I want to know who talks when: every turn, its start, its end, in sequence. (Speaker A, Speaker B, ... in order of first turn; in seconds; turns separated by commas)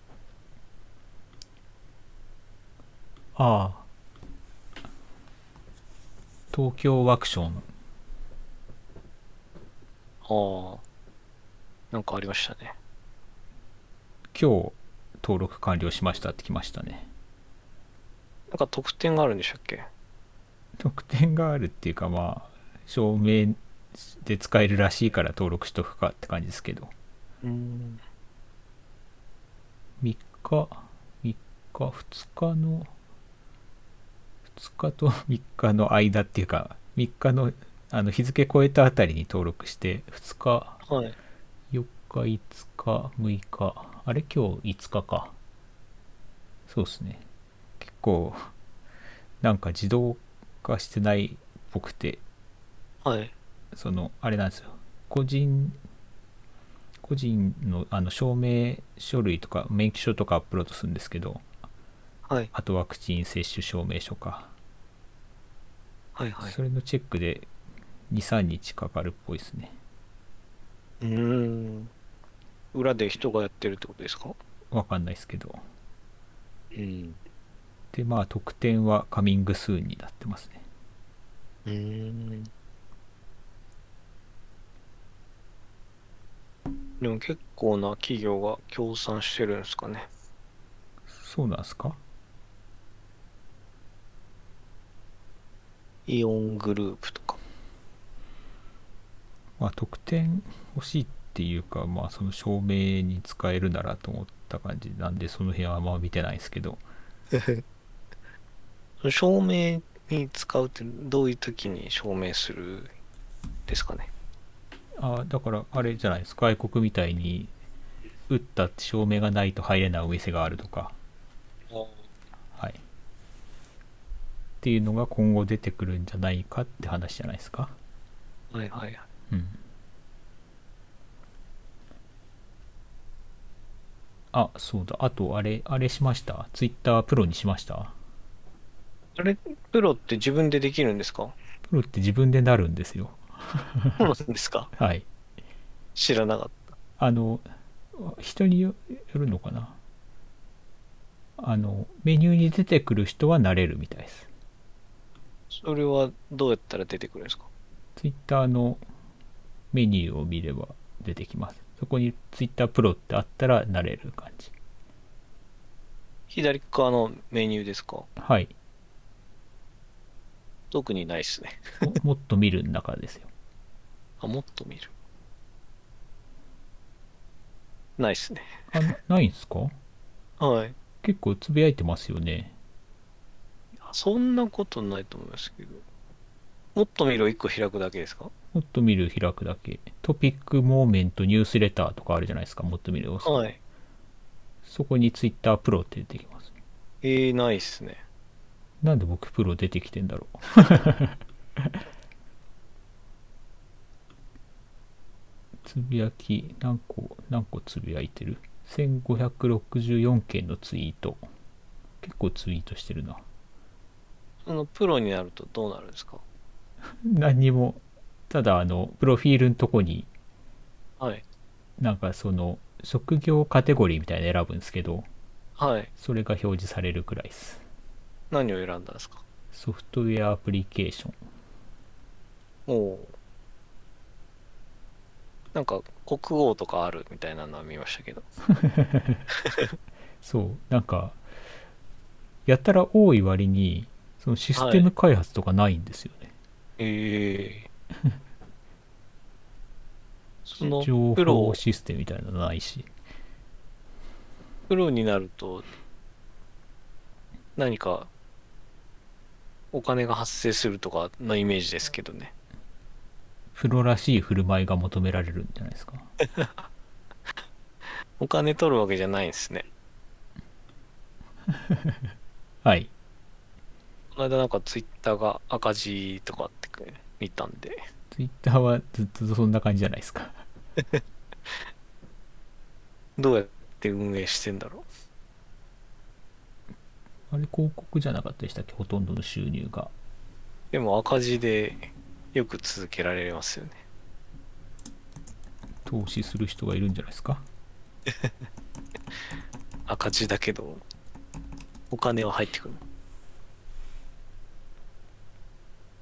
Speaker A: 3.4-3.9, Speaker A: 6.5-7.7, Speaker B: 10.2-10.8, Speaker B: 11.9-12.8, Speaker A: 14.3-17.1, Speaker B: 18.5-19.9, Speaker A: 20.8-26.9, Speaker B: 27.4-28.0, Speaker A: 30.0-32.9, Speaker A: 34.6-40.8, Speaker B: 40.9-41.2, Speaker A: 41.7-45.4, Speaker A: 46.7-47.2, Speaker A: 47.8-48.5, Speaker A: 49.4-52.2, Speaker B: 53.0-53.3, Speaker A: 53.7-55.8, Speaker A: 57.0-61.5, Speaker B: 62.3-62.5, Speaker A: 62.5-64.5, Speaker B: 66.2-66.6, Speaker A: 66.4-67.5, Speaker A: 68.1-69.8, Speaker B: 71.0-71.9, Speaker B: 72.7-74.4, Speaker A: 74.7-75.6, Speaker B: 76.7-77.2, Speaker A: 77.9-80.7, Speaker B: 81.7-82.5, Speaker B: 87.0-90.1, Speaker A: 91.1-92.0, Speaker B: 96.1-97.4, Speaker A: 99.6-106.8, Speaker B: 107.3-107.6, Speaker B: 109.0-112.9, Speaker B: 113.7-114.1, Speaker A: 115.0-117.5, Speaker A: 118.3-121.0, Speaker B: 121.7-122.0, Speaker A: 122.5-122.8, Speaker A: 124.6-127.8, Speaker B: 128.5-129.0, Speaker A: 129.3-129.6, Speaker A: 134.3-137.9, Speaker B: 139.2-141.4, Speaker A: 141.7-144.0, Speaker B: 144.0-144.7, Speaker A: 144.8-145.1, Speaker B: 146.0-146.7, Speaker A: 147.0-149.8, Speaker A: 151.4-154.3, Speaker B: 155.5-157.5, Speaker A: 158.0-158.8, Speaker A: 159.7-164.5, Speaker B: 166.3-168.1, Speaker A: 168.2-168.5, Speaker B: 170.7-171.8, Speaker A: 171.8-173.3, Speaker B: 174.2-174.9, Speaker B: 178.0-178.7, Speaker A: 178.7-179.8, Speaker B: 180.4-180.8, Speaker A: 181.0-182.6, Speaker B: 183.8-185.8, Speaker B: 186.8-188.3, Speaker A: 188.5-193.4, Speaker B: 193.2-193.6, Speaker A: 194.7-196.5, Speaker B: 197.0-198.0, Speaker A: 198.8-201.8, Speaker A: 205.6-211.2, Speaker A: 212.0-213.2, Speaker B: 214.4-216.2, Speaker A: 217.0-220.1, Speaker A: 221.8-225.1, Speaker B: 225.6-225.9, Speaker A: 226.0-227.6, Speaker B: 228.3-229.2, Speaker A: 229.5-231.2, Speaker B: 232.7-233.2, Speaker B: 235.5-238.3, Speaker A: 238.5-239.2, Speaker B: 239.4-239.7, Speaker A: 240.2-241.2, Speaker A: 242.5-246.3, Speaker B: 244.6-244.9, Speaker B: 246.8-247.7, Speaker B: 250.5-251.6, Speaker A: 250.7-252.9, Speaker B: 254.7-255.7, Speaker B: 257.6-258.1, Speaker B: 259.7-262.3, Speaker A: 263.6-266.1, Speaker B: 268.2-269.7, Speaker A: 271.5-272.1, Speaker A: 272.6-272.9, Speaker B: 274.1-277.8, Speaker A: 278.1-280.4, Speaker B: 280.8-281.6, Speaker B: 283.2-284.9, Speaker A: 287.3-289.9, Speaker B: 290.7-293.8, Speaker A: 295.9-297.5, Speaker B: 298.1-298.3, Speaker B: 299.9-300.8, Speaker B: 301.9-302.8